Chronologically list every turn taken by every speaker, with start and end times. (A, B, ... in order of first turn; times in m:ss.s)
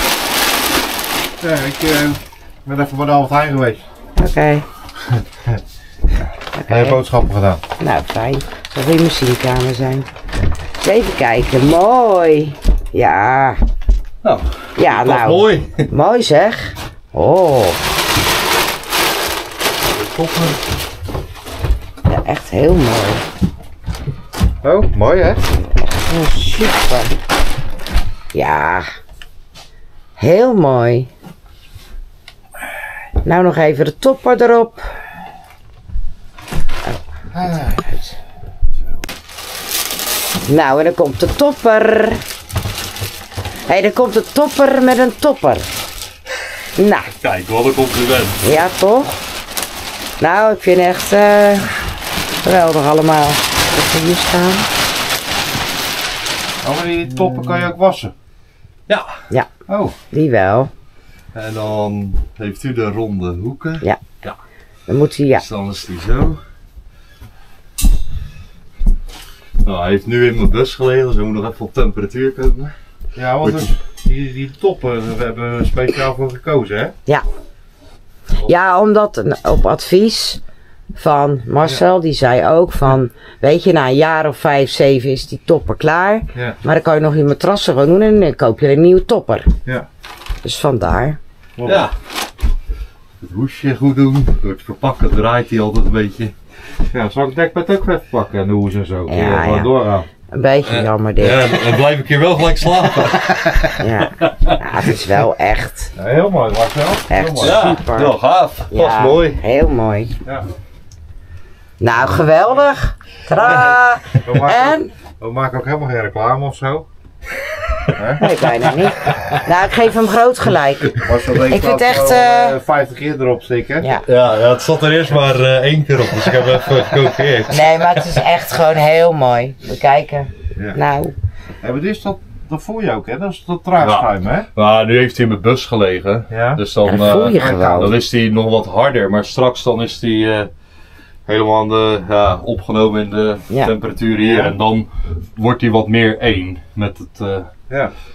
0:01.4-0:03.9 A
0:04.2-0:04.7 B
0:05.3-0:05.6 A
0:06.6-0:07.0 B
0:06.7-0:07.6 A
0:07.8-0:10.1 B
0:10.8-0:13.6 B
0:14.2-0:15.9 C
0:14.8-0:17.8 B
0:20.0-0:20.6 C
0:22.1-0:23.2 B
0:24.6-0:25.5 A
0:25.7-0:27.1 B
0:28.3-0:28.9 B
0:30.2-0:31.1 B
0:33.2-0:34.9 B
0:36.9-0:38.2 B
0:37.4-0:37.8 A
0:40.5-0:42.2 B
0:43.7-0:45.7 B
0:46.8-0:47.1 B
0:47.2-0:48.4 C
0:48.4-0:49.1 B
0:50.2-0:51.7 B
0:52.4-0:54.7 B
0:56.6-0:58.1 A
0:58.9-0:59.2 C
0:59.7-1:00.0 A
1:00.1-1:00.7 B
1:01.3-1:04.4 C
1:04.9-1:05.4 B
1:05.4-1:06.4 C
1:09.6-1:12.7 C
1:13.2-1:17.0 A
1:13.4-1:13.7 C
1:18.4-1:20.4 B
1:21.0-1:29.5 B
1:30.4-1:31.2 B
1:31.6-1:31.9 A
1:31.7-1:32.0 C
1:33.2-1:36.4 C
1:36.9-1:40.1 A
1:39.1-1:39.7 B
1:40.3-1:41.8 B
1:40.6-1:44.6 C
1:43.8-1:45.9 B
1:46.0-1:47.7 A
1:47.1-1:48.1 B
1:47.4-1:49.4 C
1:48.7-1:50.1 B
1:51.8-1:54.9 B
1:53.4-1:56.9 A
1:58.0-1:58.3 A
1:58.2-2:02.6 B
1:59.1-1:59.4 C
2:01.0-2:03.9 A
2:03.8-2:04.0 B
2:04.0-2:08.1 C
2:07.5-2:11.2 B
2:11.6-2:14.5 A
2:13.8-2:20.5 C
2:16.3-2:18.0 A
2:16.8-2:18.0 B
2:21.3-2:27.5 C
2:24.2-2:24.6 A